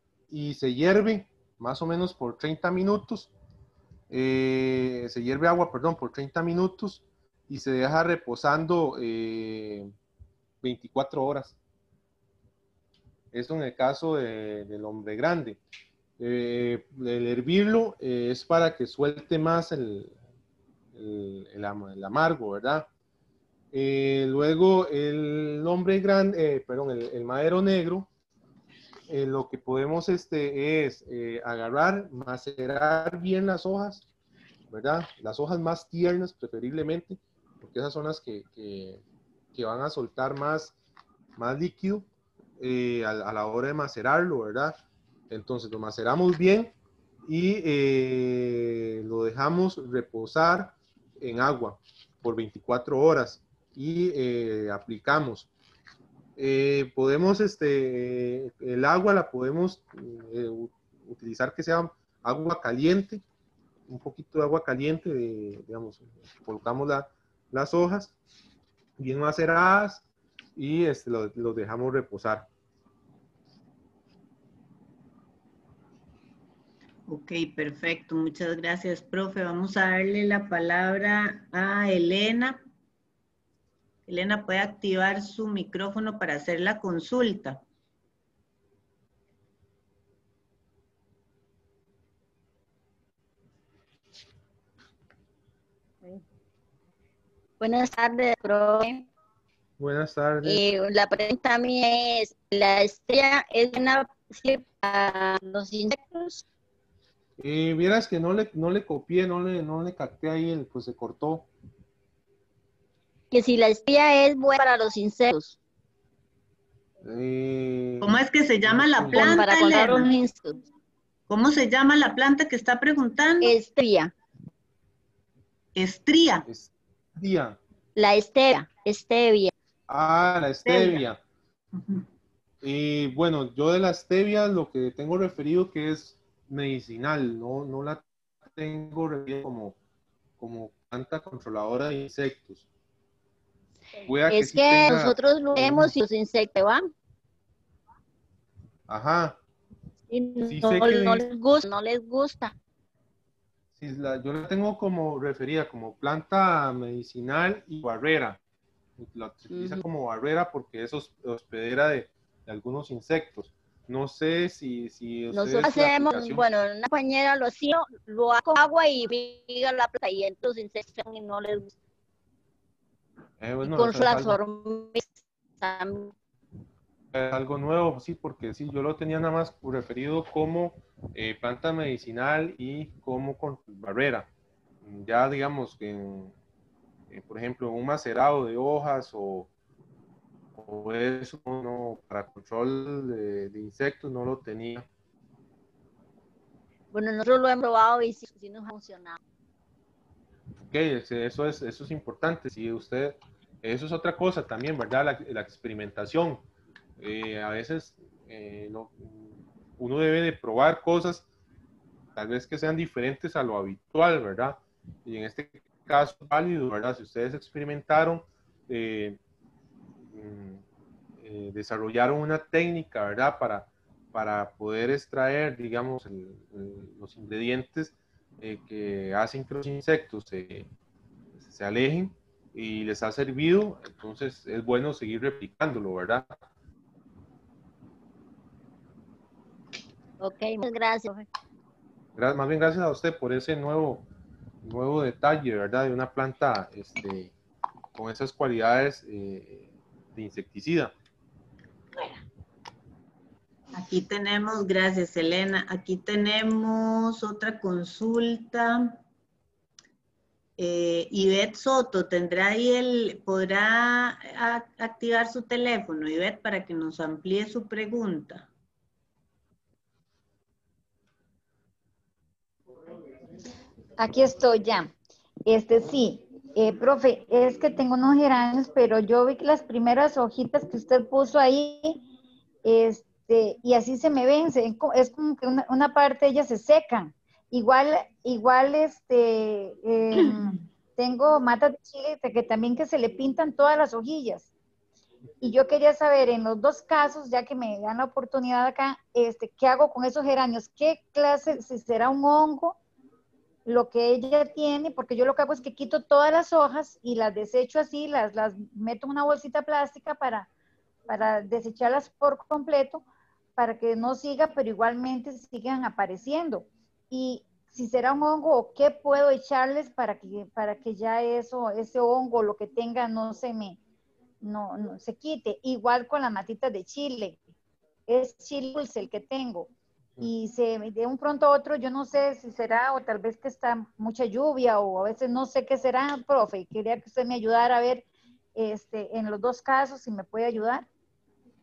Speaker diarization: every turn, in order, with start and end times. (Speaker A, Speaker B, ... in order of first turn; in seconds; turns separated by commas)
Speaker A: 0.3-3.3, Speaker A: 4.1-9.9, Speaker A: 10.6-11.6, Speaker A: 13.3-15.6, Speaker A: 16.2-20.1, Speaker A: 20.9-22.9, Speaker A: 23.7-28.1, Speaker A: 29.1-34.1, Speaker A: 34.7-39.0, Speaker A: 39.5-40.8, Speaker A: 41.4-42.1, Speaker A: 42.6-44.8, Speaker A: 45.3-46.7, Speaker A: 47.2-55.5, Speaker A: 56.4-63.2, Speaker A: 63.9-68.2, Speaker A: 69.0-70.0, Speaker A: 70.5-72.5, Speaker B: 77.1-82.6, Speaker B: 84.1-87.6, Speaker C: 97.6-99.0, Speaker A: 99.8-100.6, Speaker C: 100.4-106.4, Speaker A: 107.4-111.5, Speaker C: 113.3-115.5, Speaker A: 117.0-119.5, Speaker B: 118.0-120.1, Speaker C: 119.1-120.5, Speaker B: 121.3-123.5, Speaker C: 123.4-124.1, Speaker B: 125.7-126.5, Speaker A: 126.5-127.6, Speaker C: 128.0-129.5, Speaker A: 129.9-131.2, Speaker C: 130.7-131.0, Speaker A: 132.6-139.8, Speaker A: 140.4-142.7, Speaker A: 144.1-146.0, Speaker C: 144.3-146.9, Speaker A: 148.9-149.4, Speaker C: 150.1-152.5, Speaker A: 150.4-151.2, Speaker A: 153.8-158.4, Speaker A: 159.0-166.4, Speaker C: 159.5-159.8, Speaker C: 165.3-171.7, Speaker A: 173.4-174.4, Speaker C: 173.6-175.0, Speaker C: 175.6-176.1, Speaker A: 177.1-184.3, Speaker A: 184.8-186.3, Speaker A: 187.1-189.5, Speaker A: 190.5-194.8, Speaker C: 196.9-199.2, Speaker A: 200.7-206.4, Speaker A: 207.0-211.2, Speaker A: 212.1-219.2, Speaker A: 220.1-220.6, Speaker A: 221.2-230.7, Speaker A: 231.4-236.3, Speaker C: 240.2-241.2, Speaker A: 242.2-244.1, Speaker A: 244.6-247.3, Speaker A: 247.9-250.9, Speaker B: 253.7-259.0, Speaker B: 260.6-268.5, Speaker D: 274.0-274.9, Speaker D: 275.4-282.0, Speaker D: 282.6-294.5, Speaker D: 295.4-302.8, Speaker D: 303.6-310.5, Speaker D: 311.1-313.0, Speaker D: 313.6-323.8, Speaker D: 324.4-327.4, Speaker D: 328.1-329.7, Speaker D: 330.2-338.0, Speaker D: 338.6-340.9